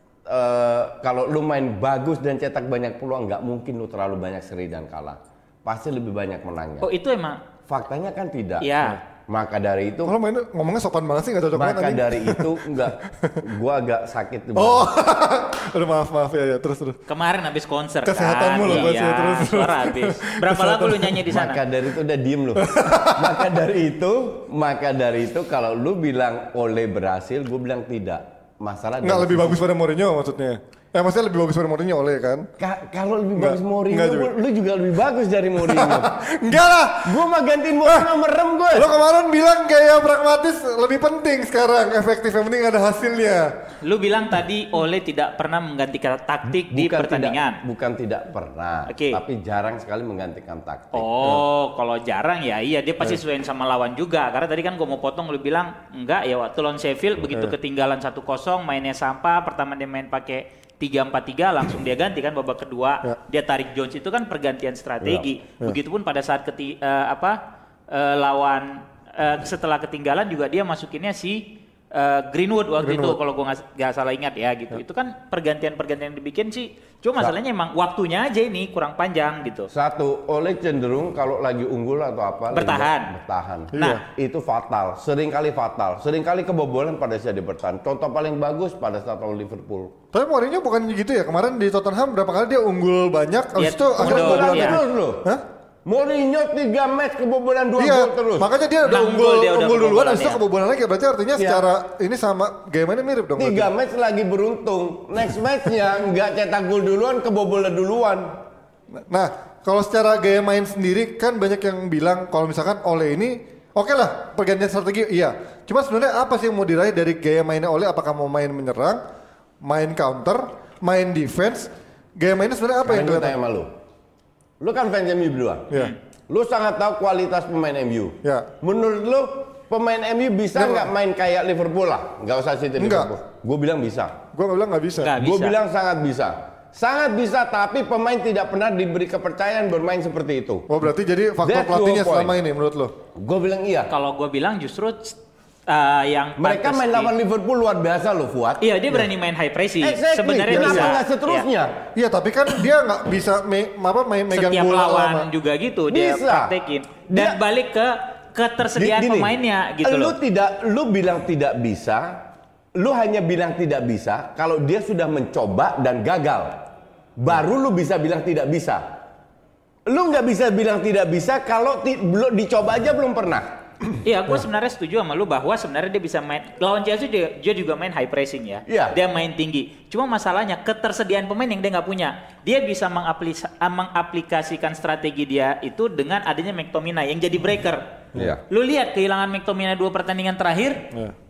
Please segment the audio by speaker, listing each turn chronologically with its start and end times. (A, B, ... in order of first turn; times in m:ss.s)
0:00.2-0:06.9 A
0:06.8-0:07.4 B
0:07.7-0:10.1 A
0:08.6-0:09.0 B
0:10.0-0:12.6 C
0:11.5-0:14.9 A
0:14.5-0:17.0 C
0:17.1-0:21.6 B
0:18.0-0:21.1 C
0:21.3-0:29.6 A
0:22.6-0:23.5 C
0:29.0-0:32.5 C
0:32.6-0:36.2 A
0:33.4-0:34.3 C
0:35.7-0:37.2 C
0:37.0-0:38.9 A
0:37.8-0:38.1 C
0:38.7-0:43.5 C
0:43.8-0:47.6 B
0:46.6-0:51.4 A
0:48.9-0:49.2 B
0:50.9-1:19.7 B
1:05.0-1:05.3 A
1:12.8-1:13.2 C
1:19.7-1:29.9 A
1:22.5-1:23.1 B
1:23.7-1:24.0 C
1:23.8-1:24.0 B
1:30.1-1:35.4 C
1:33.6-1:34.8 B
1:34.0-1:35.3 A
1:35.8-1:38.5 A
1:37.8-1:43.7 C
1:38.8-1:40.4 B
1:41.3-1:41.6 A
1:43.4-1:48.3 A
1:49.1-1:59.0 C
1:59.6-2:03.3 C
2:02.8-2:03.7 A
2:04.6-2:05.7 A
2:06.3-2:14.2 A
2:08.2-2:08.5 C
2:10.5-2:10.9 C
2:12.8-2:13.1 C
2:14.3-2:15.1 C
2:15.0-2:15.5 B
2:15.1-2:20.6 A
2:20.7-2:22.9 C
2:21.4-2:22.3 A
2:23.1-2:23.9 A
2:23.9-2:27.1 B
2:26.4-2:28.6 A
2:28.6-2:31.4 B
2:29.8-2:31.8 A
2:31.9-2:35.3 C
2:34.3-2:40.1 B
2:35.9-2:36.5 A
2:37.1-2:37.4 A
2:38.8-2:42.2 A
2:42.7-2:46.6 A
2:47.2-2:48.8 A
2:49.9-2:53.5 A
2:54.0-3:10.8 B
2:58.7-2:59.0 A
3:08.1-3:08.4 A